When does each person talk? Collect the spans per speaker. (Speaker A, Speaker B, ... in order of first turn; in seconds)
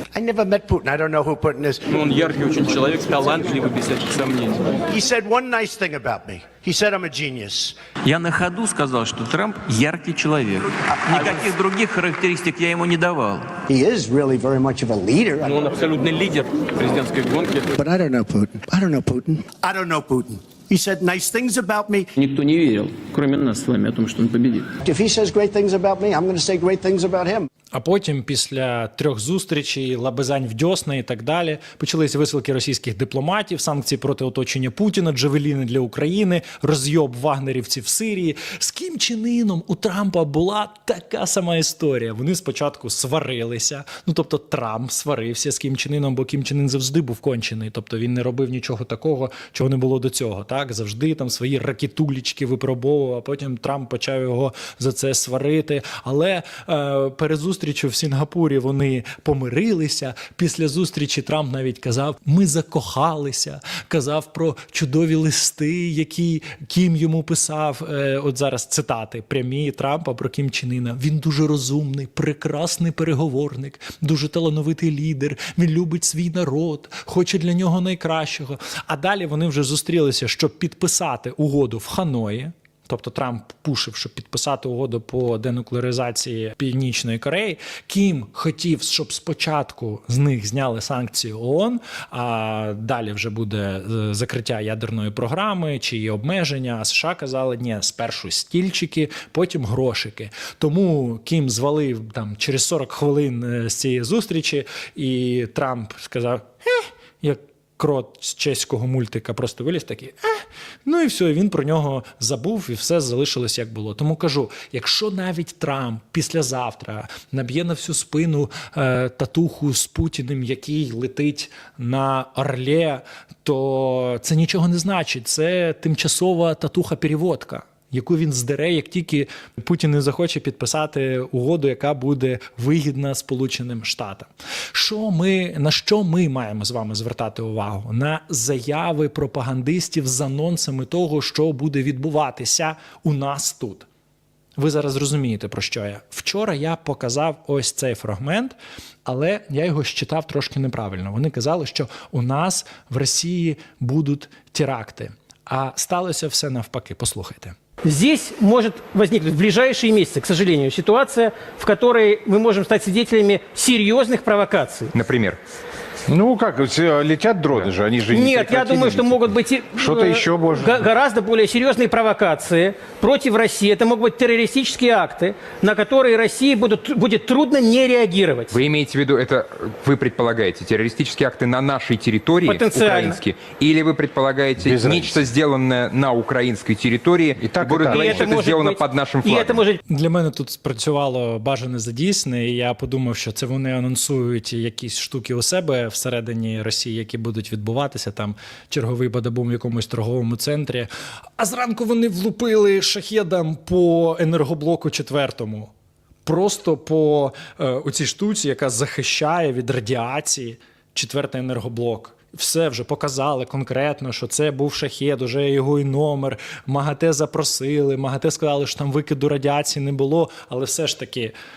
Speaker A: 0.1-1.9, 3.3-3.5, 4.9-7.8, 13.7-15.9, 17.7-22.1, 24.8-27.5
Speaker B: 1.9-4.8, 8.1-13.5, 15.6-17.7, 22.2-24.7
Speaker C: 27.7-143.9, 144.6-157.6, 189.9-205.7, 206.3-221.3
Speaker D: 157.8-165.0, 168.1-178.6, 182.4-183.2, 187.8-189.8
Speaker E: 164.9-165.4, 178.5-189.6
Speaker F: 166.1-170.9, 184.6-185.2, 187.4-188.3